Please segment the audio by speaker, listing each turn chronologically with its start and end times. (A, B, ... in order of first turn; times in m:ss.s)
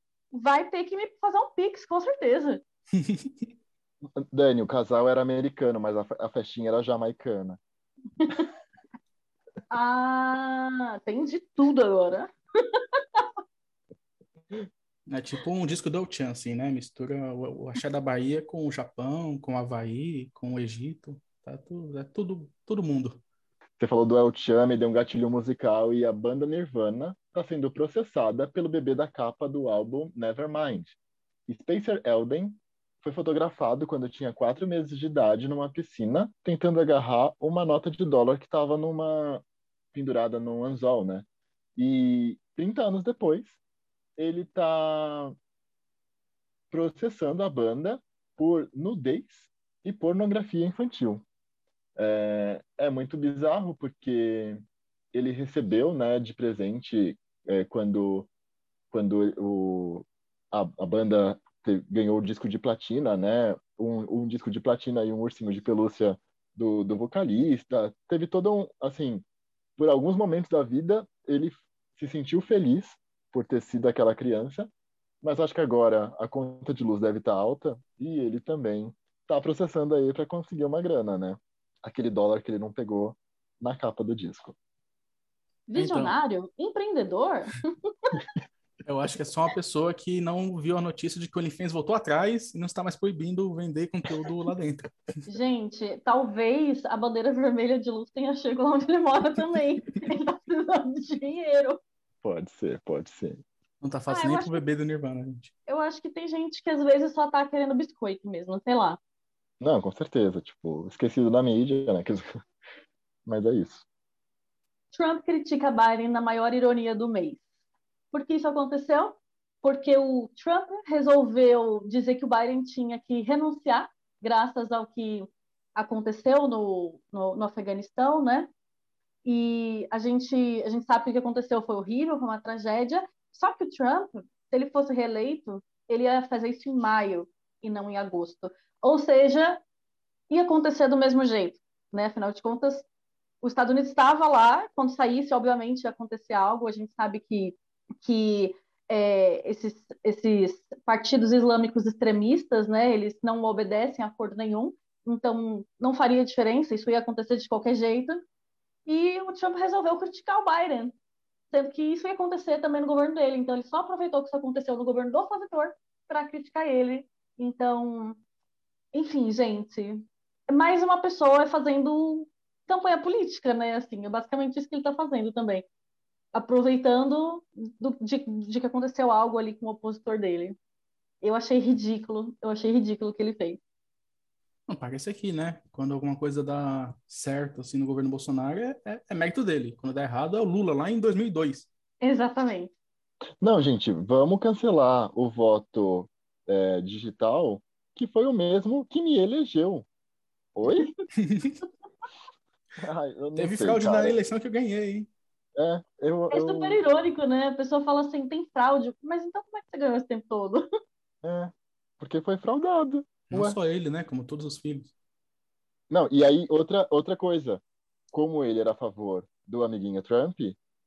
0:00.3-0:02.6 A
0:03.0-0:03.3 B
0:04.2-0:07.6 C
0:09.7-0:13.2 A
0:15.1-0:23.2 B
0:23.8-0:31.0 C
0:31.5-0:43.6 C
0:44.2-0:45.3 C
0:46.7-0:51.2 C
0:52.0-0:54.6 C
0:55.1-0:58.3 C
0:58.9-1:09.2 C
1:09.8-1:14.7 C
1:15.2-1:24.6 C
1:25.7-1:27.5 A
1:25.8-1:26.2 B
1:28.8-1:34.9 B
1:35.3-1:41.8 A
1:42.2-1:43.4 C
1:43.8-1:45.5 B
1:44.1-1:44.6 A
1:45.7-1:49.0 A
1:49.6-1:52.2 C
1:53.2-1:53.8 C
1:54.9-1:57.4 A
1:58.1-2:08.5 A
2:09.2-2:19.6 A
2:20.3-2:22.8 A
2:23.4-2:38.2 A
2:38.8-2:40.9 A
2:41.5-2:48.2 A
2:48.9-2:55.6 A
2:56.3-3:00.6 A
3:01.2-3:03.6 A
3:04.7-3:11.7 B
3:12.0-3:12.7 A
3:13.4-3:19.9 C
3:20.5-3:20.9 C
3:21.2-3:21.6 B
3:22.8-3:24.2 C
3:23.4-3:25.1 B
3:25.6-3:26.8 C
3:26.3-3:30.6 A
3:31.2-3:33.6 C
3:33.3-3:34.9 B
3:35.9-3:37.6 C
3:38.1-3:40.6 C